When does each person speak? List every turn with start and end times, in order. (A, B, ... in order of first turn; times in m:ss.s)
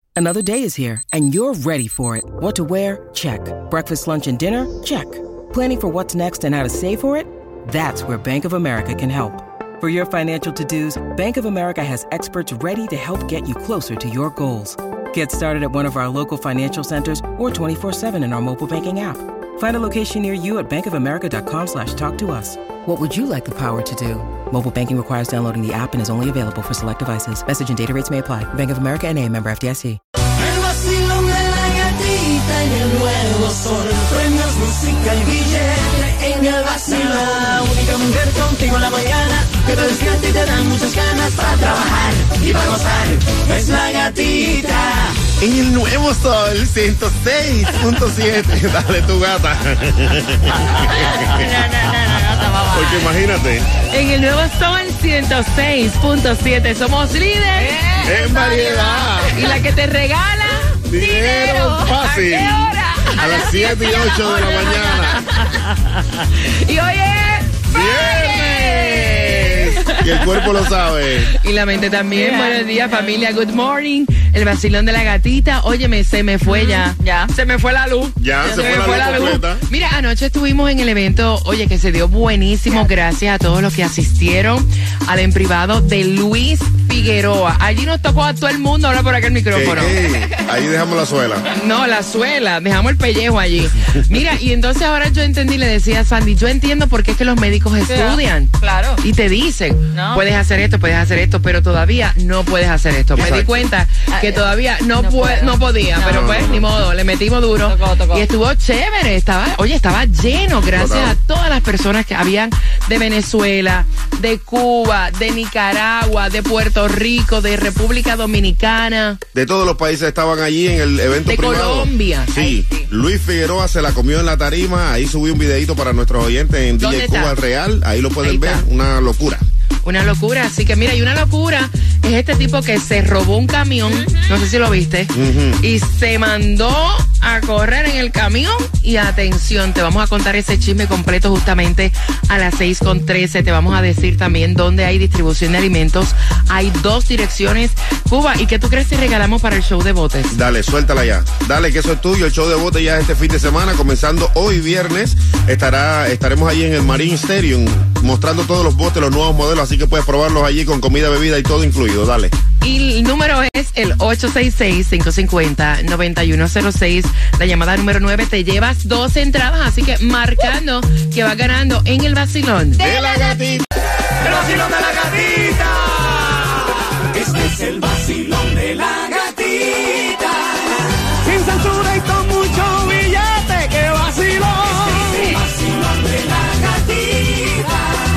0:00.1-0:30.0 A
0:30.4-0:45.2 B
0:45.4-0:51.5 C
0:50.9-0:53.1 D
0:52.7-0:53.7 C
0:53.9-0:57.7 E
0:57.6-0:59.4 D
0:58.0-0:59.4 C
0:59.2-1:00.6 E
1:00.9-1:05.2 C
1:00.9-1:05.5 D
1:02.6-1:03.5 E
1:06.4-1:09.9 E
1:07.7-1:11.3 C
1:07.7-1:09.1 D
1:11.4-1:30.0 E
1:12.1-1:13.3 D
1:16.4-1:17.3 D
1:18.2-1:19.6 C
1:18.4-1:19.4 D
1:22.7-1:22.9 D
1:29.5-1:31.4 C
1:30.1-1:30.4 D
1:31.5-1:38.5 E
1:37.9-1:39.0 D
1:39.0-1:59.2 E
1:39.9-1:40.3 D
1:43.1-1:43.7 C
1:44.1-1:46.5 D
1:46.0-1:46.9 C
1:47.6-1:48.3 D
1:50.7-1:51.2 C
1:59.3-2:09.4 C
2:01.3-2:02.3 E
2:02.3-2:02.9 D
2:06.8-2:07.3 E
2:08.2-2:08.6 E
2:09.8-2:30.3 E
2:13.8-2:14.5 D
2:15.1-2:15.6 C
2:30.3-2:42.3 C
2:42.6-2:52.8 E
2:52.7-2:53.4 D
2:52.8-2:53.6 C
2:54.3-3:00.5 B
3:01.2-3:07.7 B